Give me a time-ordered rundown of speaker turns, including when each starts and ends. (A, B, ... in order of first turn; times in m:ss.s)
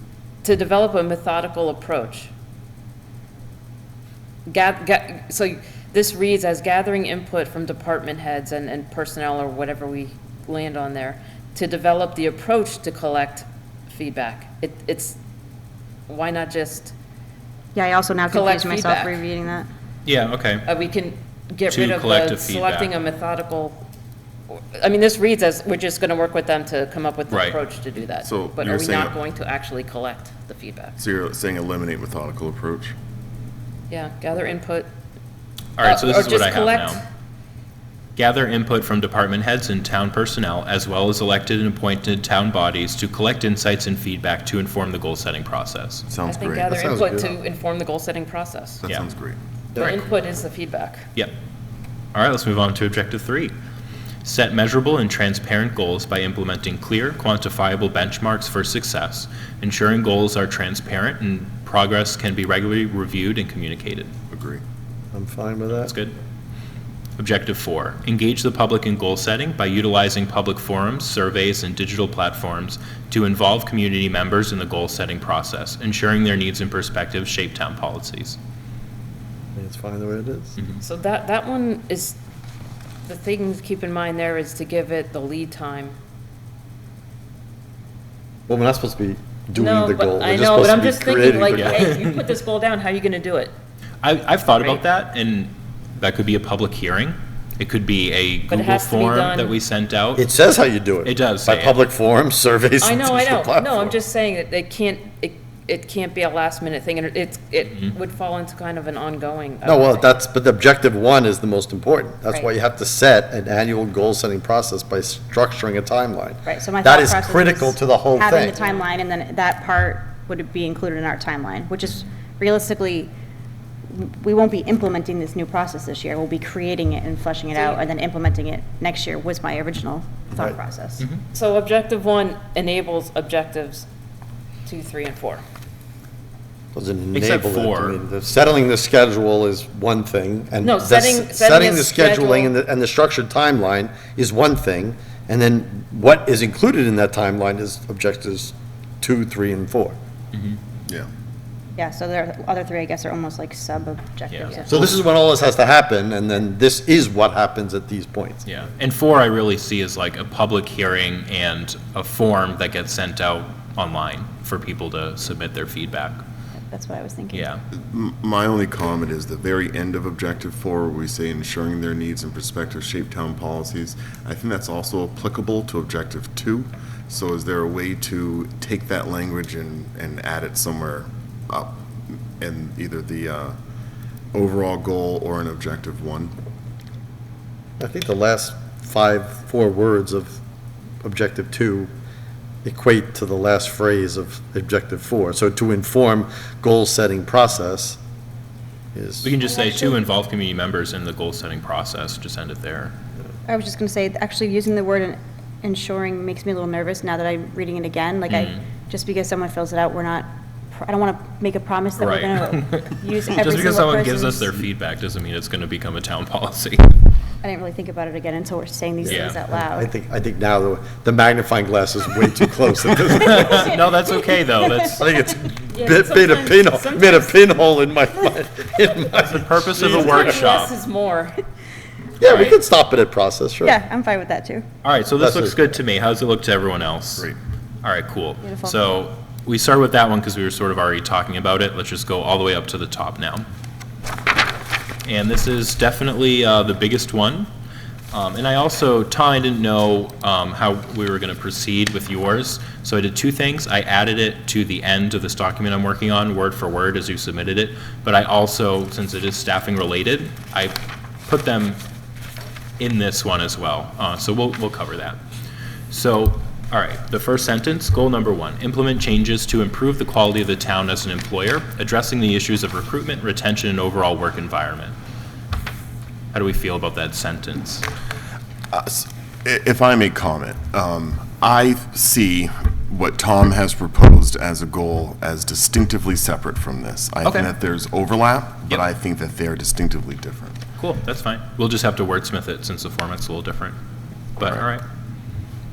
0:00.4-0:02.3 A
0:04.5-0:15.2 A
0:16.1-0:16.9 A
0:17.7-0:19.7 B
0:18.3-0:19.2 A
0:20.0-0:20.6 C
0:20.6-0:23.8 A
0:21.7-0:22.9 C
0:24.5-0:31.0 A
0:27.3-0:27.6 C
0:28.2-0:29.2 D
0:31.0-0:33.0 D
0:33.9-0:34.9 A
0:35.8-0:37.0 C
0:35.8-0:37.0 A
0:38.2-0:46.0 C
0:46.1-0:46.7 D
0:46.2-0:48.8 A
0:46.7-0:47.3 E
0:48.8-0:49.4 D
0:49.8-0:51.1 A
0:52.1-0:53.5 C
0:54.2-1:04.1 C
1:04.3-1:04.6 D
1:05.1-1:05.9 E
1:05.7-1:06.1 C
1:07.2-1:18.4 C
1:19.5-1:20.6 E
1:20.8-1:22.2 A
1:23.0-1:26.0 A
1:28.5-1:31.9 E
1:29.5-1:33.5 A
1:31.5-1:32.0 C
1:34.0-1:40.2 C
1:38.5-1:39.5 A
1:40.2-1:43.9 E
1:41.0-1:41.8 C
1:42.8-1:50.1 A
1:49.6-1:58.6 E
1:56.4-2:03.1 B
2:03.9-2:11.1 B
2:07.5-2:07.8 A
2:11.3-2:13.9 A
2:14.6-2:15.4 A
2:16.7-2:30.0 E
2:17.1-2:18.0 C
2:20.6-2:22.5 A
2:30.3-2:30.6 C
2:31.8-2:35.0 B
2:34.3-2:34.6 C
2:34.7-2:38.4 E
2:38.4-2:46.2 C
2:46.7-2:47.5 B
2:47.3-2:47.6 C
2:47.7-3:03.6 D
3:04.3-3:06.3 D
3:07.8-3:10.4 E
3:11.0-3:11.9 E
3:12.6-3:18.0 E
3:18.9-3:19.3 E
3:19.2-3:22.9 C
3:23.5-3:34.5 B
3:28.3-3:28.6 C
3:32.0-3:37.0 C
3:37.4-3:39.9 B
3:39.0-3:43.8 E
3:39.0-3:39.4 C
3:42.9-3:45.0 C
3:44.9-3:50.4 E
3:45.7-3:47.3 A
3:49.1-3:50.7 C
3:49.8-3:51.4 A
3:52.2-3:53.8 E
3:52.2-3:52.6 C
3:53.6-3:54.6 B
3:54.8-3:57.3 C
3:55.2-3:55.6 E
3:57.8-4:03.4 C
3:58.4-3:58.8 B
4:05.0-4:07.5 C
4:08.1-4:21.8 C
4:22.8-4:25.2 C
4:25.9-4:35.0 C
4:36.3-4:37.8 C
4:38.7-4:50.6 D
4:47.2-4:47.5 C
4:50.8-4:53.8 C
4:54.4-4:54.8 C